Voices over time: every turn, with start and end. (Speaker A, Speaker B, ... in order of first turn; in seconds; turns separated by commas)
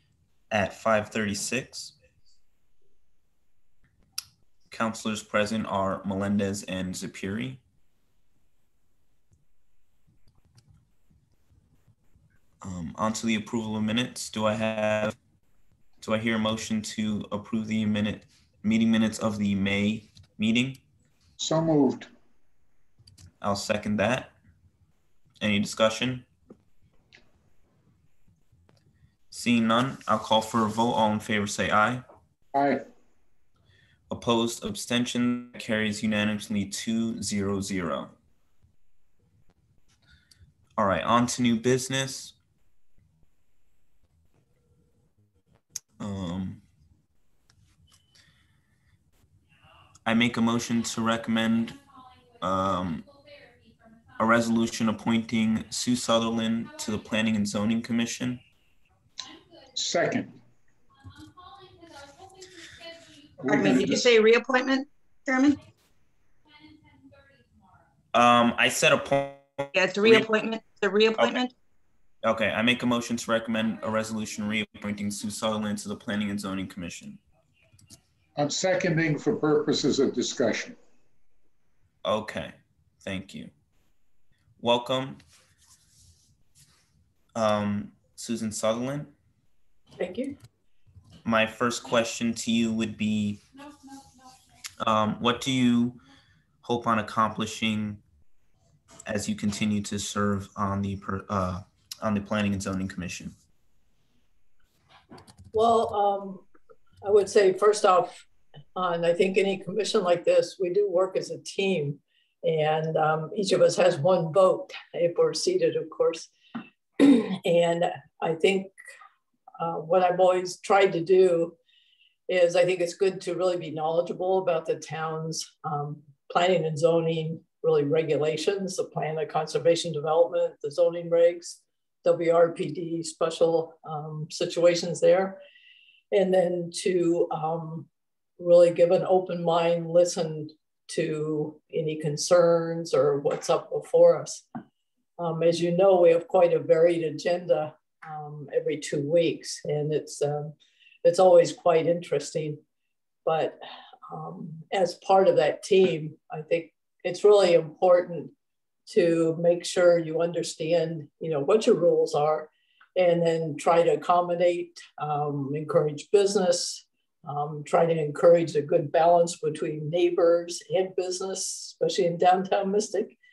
Speaker A: 0.5-1.9, Speaker A: 4.7-7.6, Speaker A: 12.6-15.2, Speaker A: 16.0-20.8, Speaker B: 21.4-22.1, Speaker A: 23.4-24.3, Speaker A: 25.4-26.3, Speaker A: 29.3-32.0, Speaker B: 32.5-32.8, Speaker A: 34.1-38.1, Speaker A: 40.8-42.3, Speaker A: 46.0-46.6, Speaker A: 50.0-51.8, Speaker A: 52.4-53.1, Speaker A: 54.2-58.4, Speaker B: 59.7-60.4, Speaker B: 63.4-64.1, Speaker C: 63.5-65.6, Speaker A: 68.1-70.3, Speaker C: 69.7-71.5, Speaker A: 71.2-71.4, Speaker A: 72.2-77.2, Speaker B: 78.4-80.8, Speaker A: 82.0-83.5, Speaker A: 84.6-85.2, Speaker A: 87.3-89.1, Speaker D: 90.0-90.4, Speaker A: 91.2-93.4, Speaker A: 94.8-96.0, Speaker A: 96.6-98.0, Speaker A: 99.1-103.3, Speaker D: 105.5-106.5, Speaker D: 107.0-108.2, Speaker D: 108.8-116.3, Speaker D: 117.0-118.7, Speaker D: 119.6-121.6, Speaker D: 122.3-135.4, Speaker D: 136.1-137.9, Speaker D: 138.4-144.4, Speaker D: 145.2-152.6, Speaker D: 153.2-153.6, Speaker D: 154.1-158.3, Speaker D: 158.9-173.2